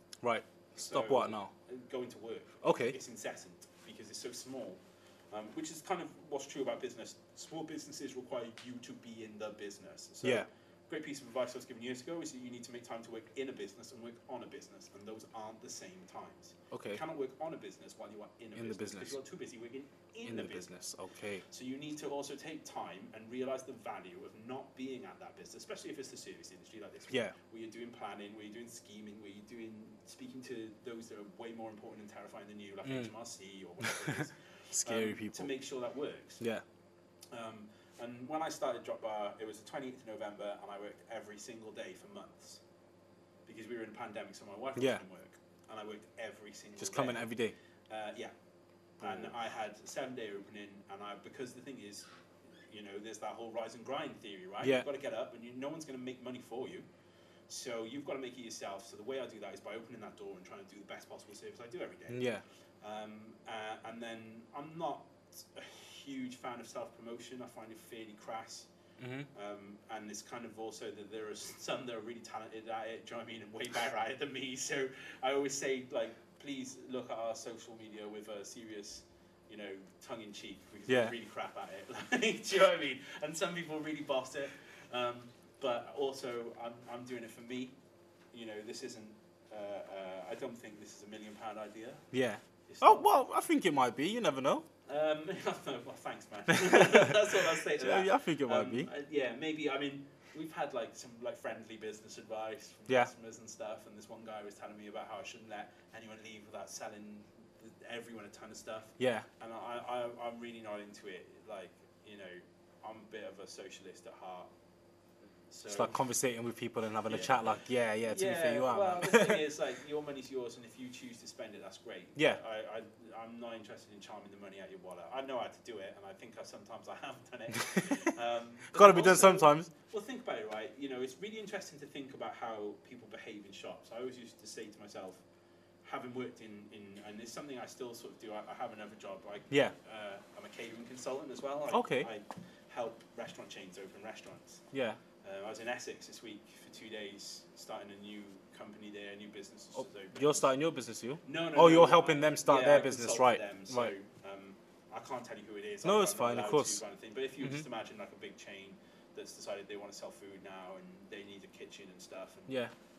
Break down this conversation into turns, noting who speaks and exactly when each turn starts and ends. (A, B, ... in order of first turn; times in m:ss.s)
0:00.2-0:01.5 A
0:00.8-0:20.7 B
0:02.6-0:03.0 A
0:16.7-0:17.0 A
0:18.6-0:19.2 A
0:20.3-0:21.4 A
0:21.5-0:36.4 B
0:32.8-0:33.1 A
0:33.8-0:34.2 A
0:34.7-0:35.5 A
0:37.3-0:42.6 B
0:43.5-0:47.3 B
0:44.8-0:45.0 A
0:46.8-0:47.5 A
0:47.9-0:48.3 B
0:49.0-0:56.9 B
0:49.0-0:49.3 A
0:57.5-1:02.2 B
1:02.1-1:02.4 A
1:02.8-1:08.7 B
1:09.0-1:09.3 A
1:09.3-1:27.8 B
1:20.9-1:21.1 A
1:28.3-1:32.1 B
1:32.1-1:34.7 A
1:32.7-1:33.1 B
1:34.9-1:54.5 B
1:36.7-1:38.9 A
1:49.0-1:49.3 A
1:55.5-1:56.0 B
1:55.7-1:59.5 A
1:57.1-2:15.2 B
2:08.7-2:09.7 A
2:15.8-2:24.6 B
2:21.7-2:22.1 A
2:24.7-2:25.0 A
2:25.2-2:30.5 B
2:29.8-2:33.9 A
2:31.2-2:42.6 B
2:35.8-2:36.8 A
2:37.4-2:37.7 A
2:42.5-2:42.7 A